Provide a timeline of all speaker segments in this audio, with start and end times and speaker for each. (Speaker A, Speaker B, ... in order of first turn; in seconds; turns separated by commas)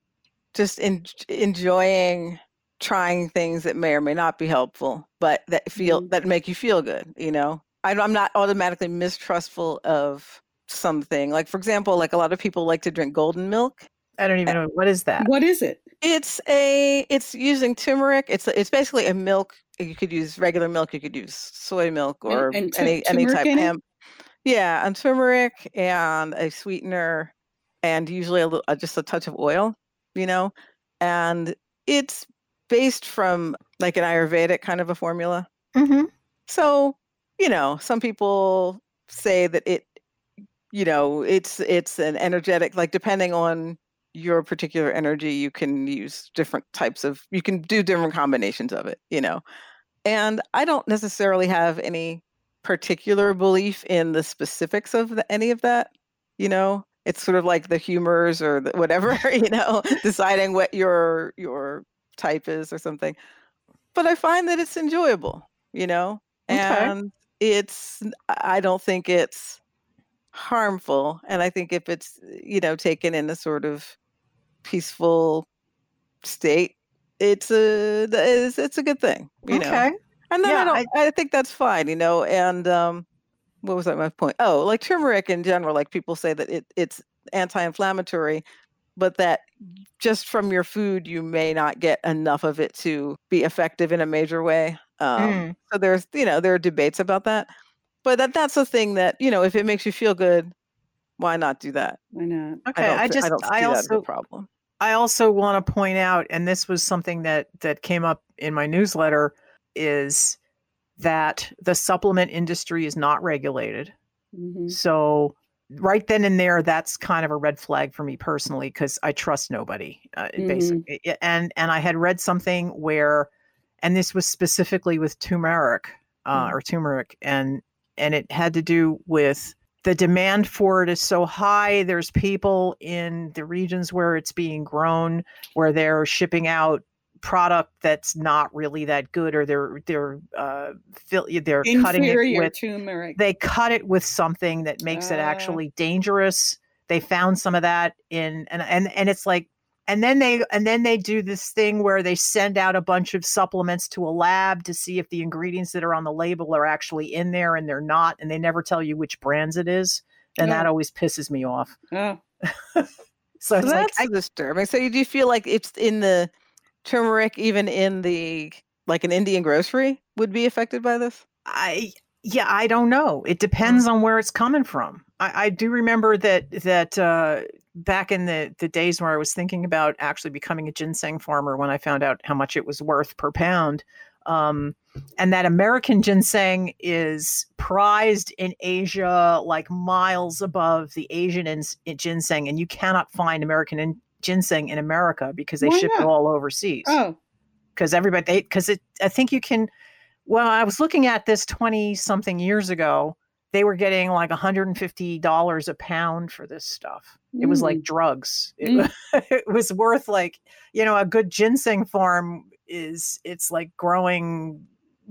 Speaker A: 0.5-13.9, Speaker B: 5.8-6.1, Speaker C: 14.2-15.3, Speaker B: 15.2-15.8, Speaker A: 16.0-23.8, Speaker B: 22.3-23.7, Speaker A: 24.4-27.3, Speaker A: 27.8-35.5, Speaker C: 35.7-36.1, Speaker A: 36.5-39.9, Speaker A: 40.7-49.4, Speaker A: 50.0-63.1, Speaker A: 63.9-69.6, Speaker C: 66.5-66.9, Speaker A: 70.3-74.0, Speaker A: 74.6-75.5, Speaker A: 76.2-83.0, Speaker C: 79.5-80.9, Speaker A: 83.6-88.4, Speaker A: 89.0-89.5, Speaker A: 90.0-97.5, Speaker C: 95.2-95.5, Speaker A: 98.0-100.5, Speaker A: 101.2-102.0, Speaker B: 102.1-102.6, Speaker C: 102.7-104.0, Speaker A: 102.7-104.5, Speaker C: 104.8-110.4, Speaker C: 111.0-113.9, Speaker B: 114.3-114.8, Speaker C: 114.7-123.3, Speaker B: 120.4-120.8, Speaker C: 123.8-142.5, Speaker B: 141.6-143.2, Speaker C: 143.2-161.7, Speaker B: 144.9-145.6, Speaker B: 160.4-160.7, Speaker B: 161.9-162.2, Speaker C: 162.5-162.9, Speaker C: 163.4-164.1, Speaker A: 163.6-166.3, Speaker A: 166.8-171.2, Speaker C: 171.4-197.0, Speaker B: 195.6-196.1, Speaker B: 196.8-197.2, Speaker C: 197.8-199.7, Speaker C: 200.2-214.7, Speaker B: 207.3-207.8, Speaker B: 208.6-208.9